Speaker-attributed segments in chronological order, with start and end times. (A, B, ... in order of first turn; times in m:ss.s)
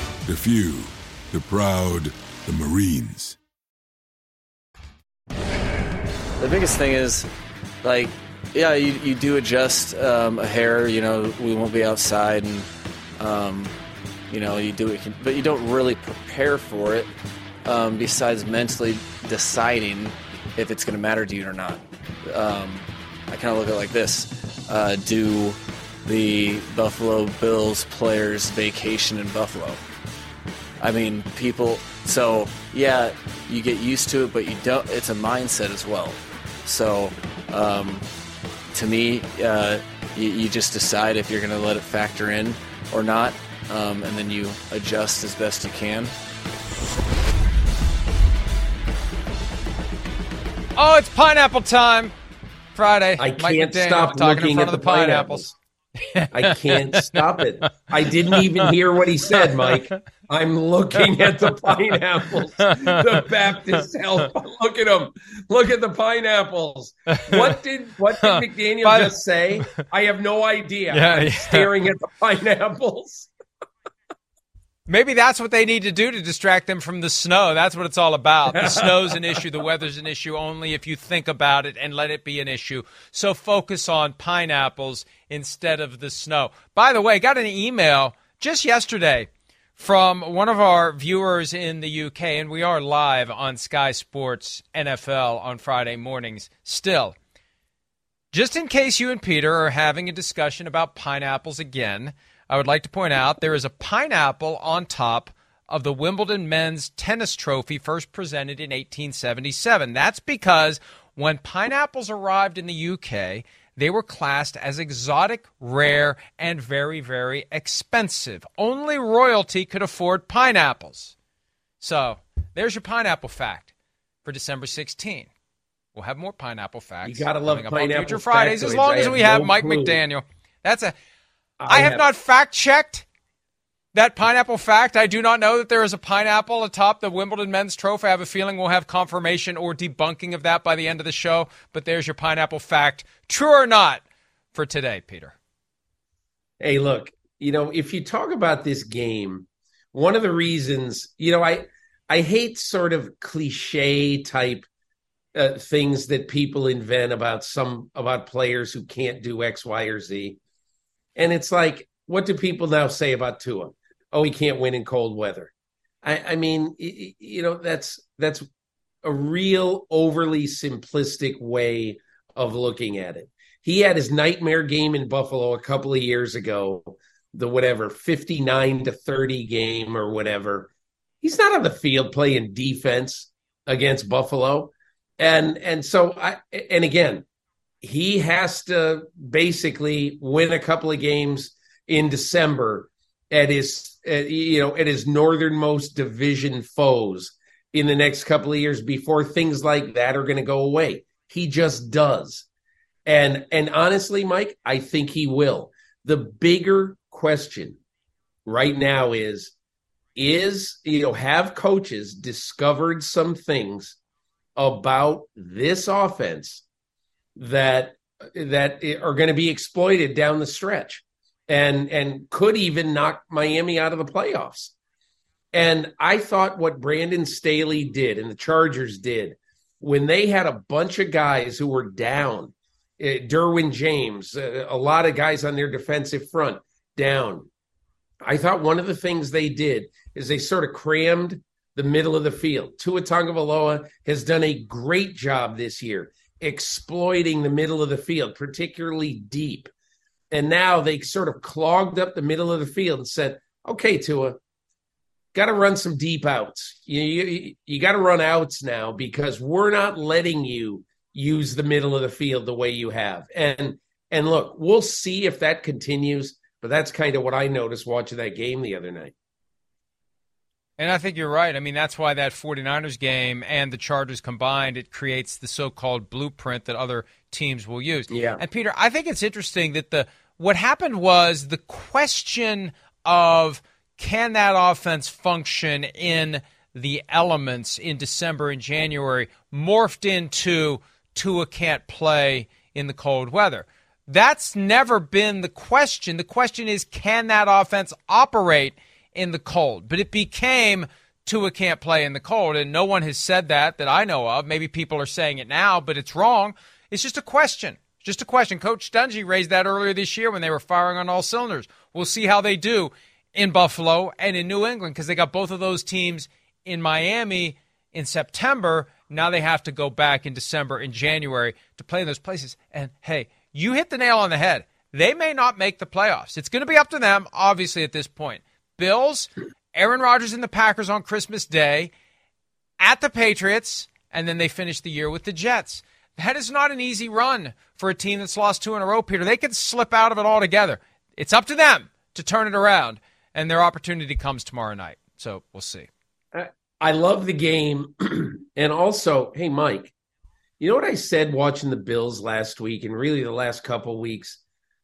0:00.2-0:03.4 A
0:06.4-0:07.3 B
0:07.8-0:12.7 B
0:13.2-0:13.7 B
0:14.3-0:17.1 B
0:17.6-0:29.8 B
0:30.8-0:38.0 B
0:38.7-0:46.1 B
0:50.8-0:52.1 C
0:52.7-0:55.5 C
0:53.2-0:55.5 D
0:56.0-0:57.2 C
0:56.3-1:13.3 D
0:58.3-0:58.7 C
0:59.4-0:59.9 C
1:02.6-1:03.0 C
1:07.1-1:07.5 C
1:08.2-1:09.1 C
1:10.9-1:11.7 C
1:14.9-1:37.2 C
1:18.5-1:19.4 D
1:38.3-2:01.1 C
2:01.8-2:03.7 C
2:04.2-2:05.3 C
2:05.9-2:10.9 C
2:07.0-2:10.0 D
2:11.6-2:12.0 D
2:11.7-2:13.0 C
2:13.9-2:24.0 C
2:24.5-2:25.3 C
2:26.6-2:34.7 D
2:35.3-2:40.4 D
2:41.2-2:45.5 D
2:46.0-2:48.4 D
2:49.0-3:00.7 D
3:01.2-3:07.2 D
3:07.8-3:22.4 D
3:23.0-3:27.8 D
3:28.4-3:29.5 D
3:30.2-3:34.0 D
3:34.6-3:36.6 D
3:37.4-3:44.7 D
3:45.5-3:57.5 D
3:58.2-4:09.7 D
4:10.3-4:14.4 D
4:15.3-4:29.1 D
4:30.8-5:31.9 C
4:38.1-4:38.4 D
5:32.8-5:45.9 C
5:46.3-5:49.9 D
5:50.6-5:54.4 D